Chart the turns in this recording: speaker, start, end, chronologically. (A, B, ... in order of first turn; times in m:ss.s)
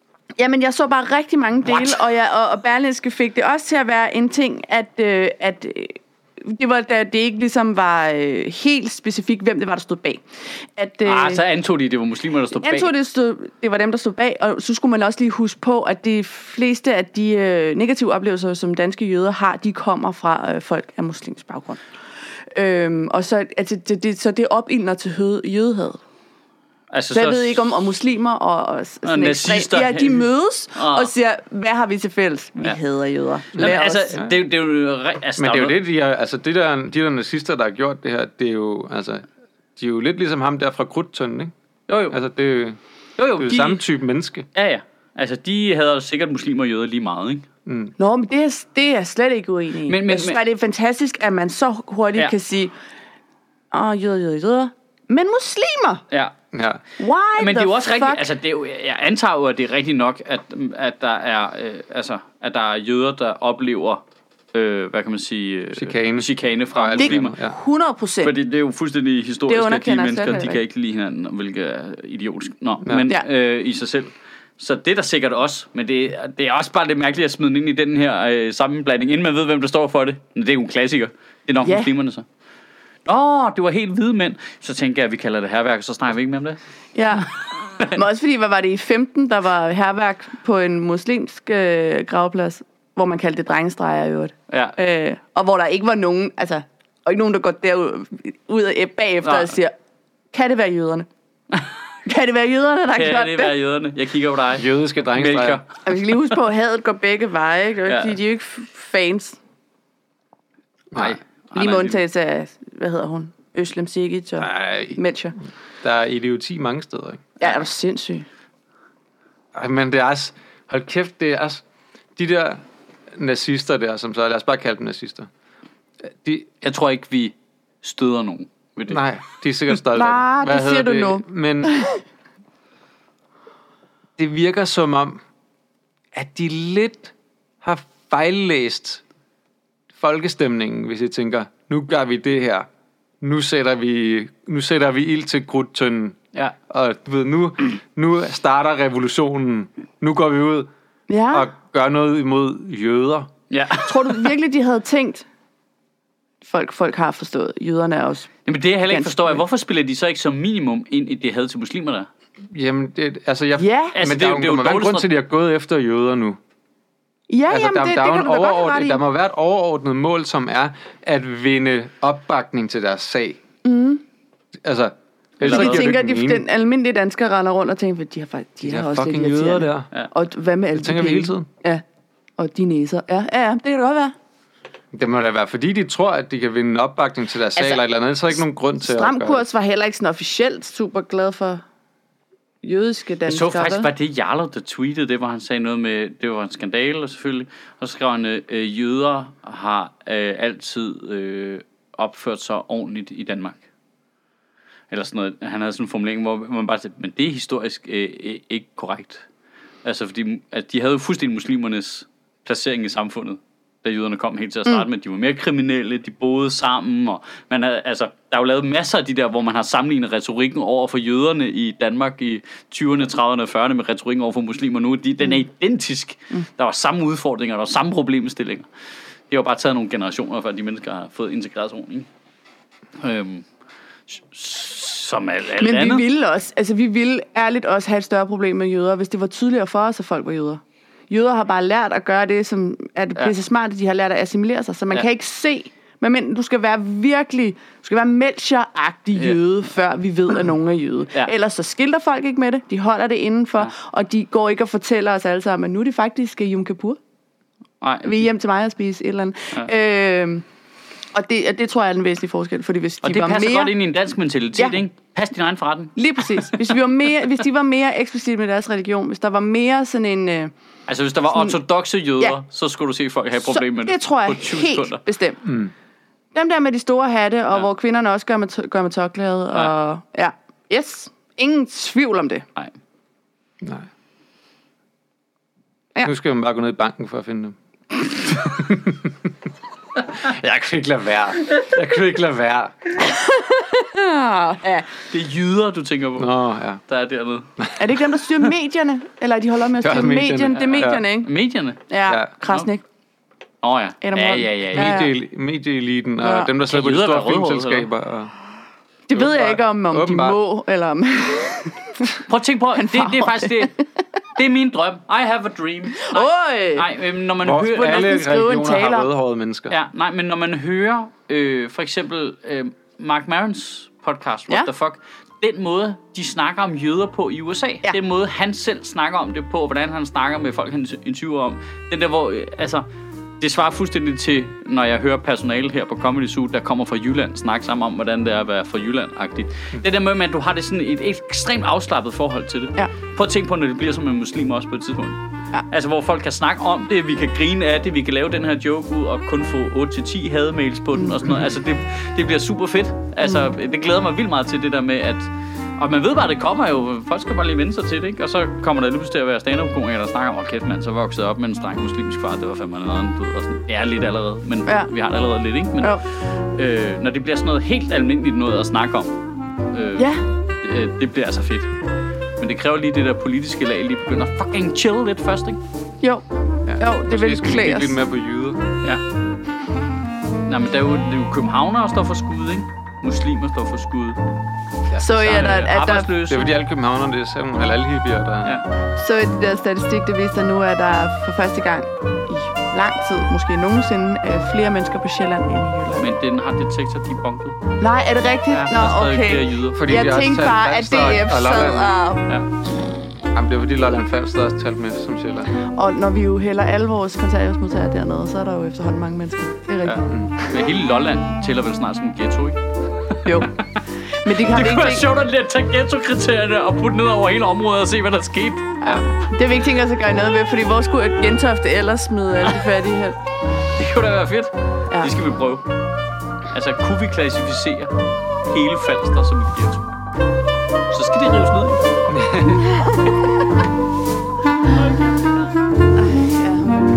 0:00.4-0:10.2 A
0:10.8-0:11.4 A
0:11.0-0:12.9 B
0:12.6-0:21.8 A
0:22.5-0:26.0 A
0:26.9-0:27.7 B
0:27.1-0:34.2 A
0:29.0-0:30.2 B
0:30.8-0:31.1 B
0:33.6-0:35.8 B
0:33.6-0:34.4 C
0:35.4-0:39.3 C
0:39.8-0:41.5 C
0:41.9-0:42.2 B
0:42.1-0:42.8 C
0:43.2-0:43.8 B
0:43.4-0:44.5 C
0:44.5-0:47.5 B
0:47.7-0:48.0 C
0:48.0-0:52.8 A
0:49.9-0:50.4 B
0:53.7-0:56.0 A
0:56.5-0:56.8 C
0:57.0-0:58.2 A
0:57.4-1:07.4 B
1:05.8-1:07.6 C
1:07.0-1:08.3 A
1:08.2-1:22.2 B
1:09.5-1:10.6 A
1:21.6-1:21.9 A
1:23.1-1:26.6 B
1:27.0-1:39.7 A
1:27.2-1:28.0 B
1:34.5-1:34.8 B
1:39.2-1:39.5 B
1:40.3-1:41.1 A
1:42.1-1:43.5 A
1:42.9-1:45.8 B
1:44.6-1:45.6 C
1:45.8-1:49.4 A
1:47.9-1:48.2 B
1:50.9-1:51.2 C
1:51.0-1:52.0 B
1:51.5-1:55.4 A
1:54.4-1:55.0 C
1:55.8-1:57.3 C
1:57.4-1:58.3 A
1:59.5-2:01.6 C
2:02.2-2:05.3 C
2:06.0-2:06.5 C
2:06.6-2:09.0 B
2:08.9-2:11.8 C
2:09.9-2:12.0 A
2:14.2-2:15.2 C
2:16.1-2:19.0 C
2:20.0-2:22.7 C
2:23.2-2:30.7 C
2:31.1-2:31.5 A
2:31.3-2:33.3 C
2:33.5-2:34.3 B
2:33.9-2:35.3 A
2:36.4-2:38.3 A
2:38.5-2:42.1 B
2:38.9-2:39.4 A
2:42.5-2:46.4 C
2:43.6-2:44.0 A
2:43.9-2:45.1 B
2:47.3-2:49.0 A
2:47.5-2:53.4 C
2:53.6-2:54.0 A
2:54.6-2:56.4 C
2:55.4-2:55.9 B
2:55.4-3:01.8 A
2:58.6-2:59.9 C
3:00.7-3:01.5 C
3:02.4-3:04.1 A
3:04.9-3:09.4 C
3:07.6-3:07.8 A
3:08.4-3:11.6 A
3:12.6-3:13.9 A
3:13.3-3:23.6 B
3:24.9-3:29.3 B
3:29.8-3:48.7 B
3:49.3-3:52.1 B
3:53.0-3:53.5 B
3:54.1-3:56.0 B
3:55.6-4:17.0 A
4:17.8-4:18.2 B
4:18.0-4:20.4 A
4:21.1-4:23.7 A
4:23.0-4:26.6 B
4:26.0-4:30.5 A
4:30.9-4:35.0 B
4:31.3-4:31.6 A
4:33.4-4:35.5 A
4:35.5-4:35.7 C
4:36.3-4:42.4 A
4:43.6-4:43.9 C
4:46.0-4:49.3 C
4:50.0-4:52.9 C
4:53.0-4:55.0 A
4:55.1-4:57.5 B
4:56.2-4:56.8 C
4:57.6-4:57.9 C
4:57.8-5:01.3 A
4:59.8-5:01.0 C
5:00.5-5:01.8 B
5:01.9-5:02.8 A
5:03.6-5:05.0 B
5:04.0-5:05.1 A
5:04.7-5:08.3 C
5:06.2-5:06.5 A
5:06.7-5:07.9 B
5:09.1-5:12.2 A
5:09.1-5:10.4 C
5:12.3-5:13.8 B
5:12.8-5:13.8 A
5:14.4-5:18.2 B
5:16.0-5:16.9 A
5:17.4-5:19.8 C
5:17.8-5:19.1 A
5:19.7-5:32.9 B
5:33.4-5:45.2 B
5:45.7-6:09.2 B
5:53.2-5:53.5 A
6:04.7-6:04.9 A
6:09.7-6:11.7 B
6:12.4-6:15.6 B
6:16.7-6:18.6 C
6:16.8-6:18.0 A
6:20.4-6:24.2 B
6:24.9-6:25.6 C
6:25.0-6:26.2 A
6:25.2-6:26.5 B
6:26.3-6:28.6 C
6:29.0-6:36.1 A
6:36.0-6:37.6 B
6:37.8-6:42.3 A
6:38.5-6:39.8 B
6:39.7-6:42.0 C
6:43.3-6:45.5 C
6:45.6-6:50.7 A
6:49.8-6:59.1 B
6:53.2-6:53.6 A
6:54.1-6:55.1 A
6:58.8-7:03.2 A
7:03.8-7:05.6 B
7:06.5-7:09.8 B
7:10.9-7:12.0 B
7:12.1-7:12.7 C
7:14.7-7:15.5 B
7:16.0-7:16.8 A